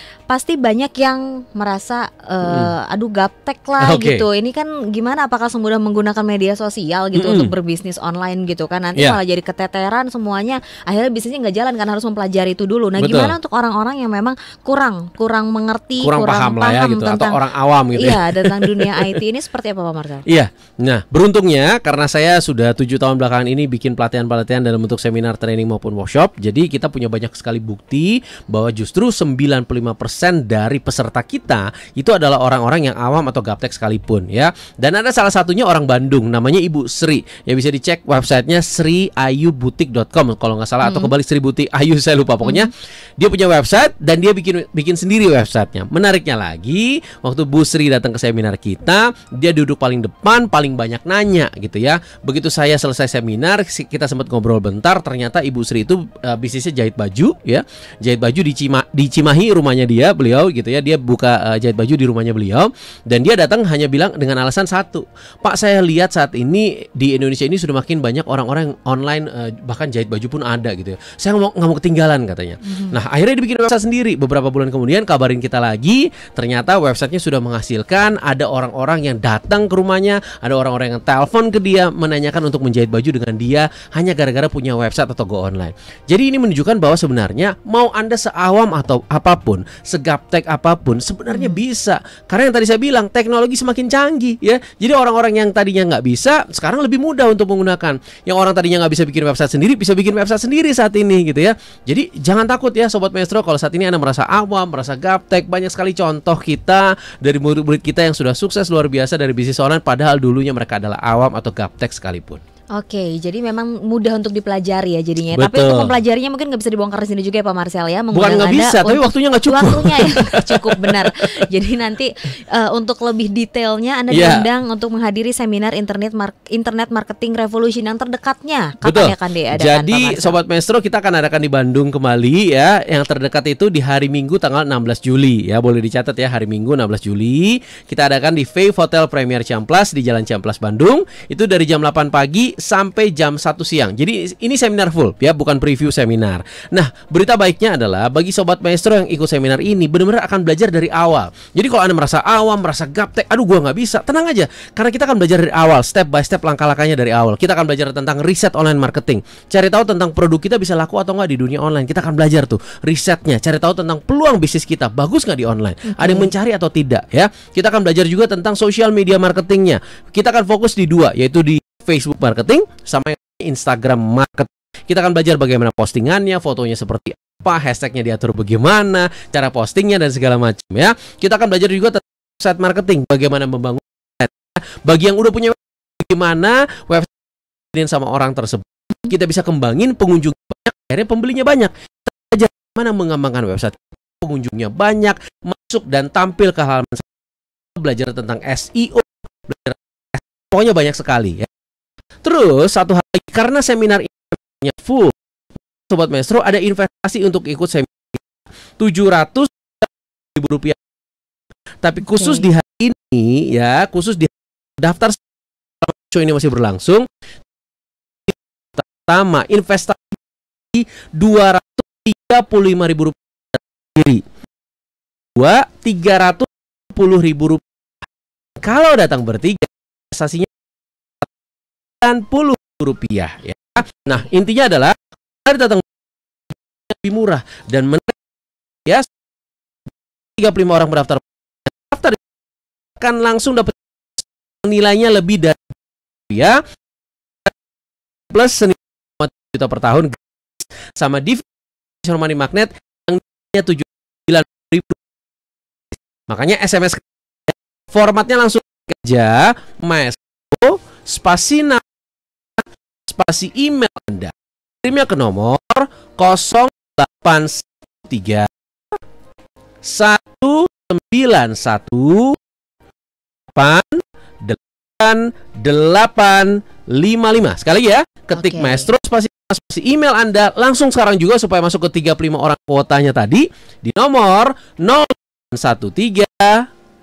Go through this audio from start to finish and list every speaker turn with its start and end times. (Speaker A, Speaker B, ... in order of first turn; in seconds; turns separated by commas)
Speaker A: 0.3-17.4, Speaker B: 2.4-2.7, Speaker B: 3.8-4.2, Speaker B: 7.1-7.5, Speaker B: 13.0-13.3, Speaker B: 16.0-19.1, Speaker A: 17.9-20.2, Speaker B: 20.3-112.4, Speaker A: 40.8-41.1, Speaker A: 42.4-42.7, Speaker A: 72.6-73.0, Speaker A: 91.3-91.6, Speaker A: 112.7-130.4, Speaker B: 115.3-115.9, Speaker B: 118.1-121.1, Speaker B: 124.1-124.4, Speaker B: 128.8-187.1, Speaker A: 165.9-166.3, Speaker B: 187.7-197.1, Speaker B: 197.8-201.5, Speaker B: 202.2-205.1, Speaker B: 205.9-208.2, Speaker B: 208.8-210.8, Speaker B: 211.8-215.2, Speaker A: 212.1-212.4, Speaker B: 215.8-217.1, Speaker B: 218.3-220.2, Speaker B: 220.7-224.2, Speaker B: 225.3-227.6, Speaker B: 228.6-230.5, Speaker B: 232.0-235.8, Speaker B: 236.9-238.2, Speaker B: 240.4-242.2, Speaker B: 243.0-245.7, Speaker B: 246.3-246.6, Speaker B: 248.3-251.4, Speaker B: 252.0-255.0, Speaker B: 256.3-261.8, Speaker B: 262.6-268.5, Speaker B: 269.8-272.4, Speaker B: 273.5-286.7, Speaker A: 278.4-278.9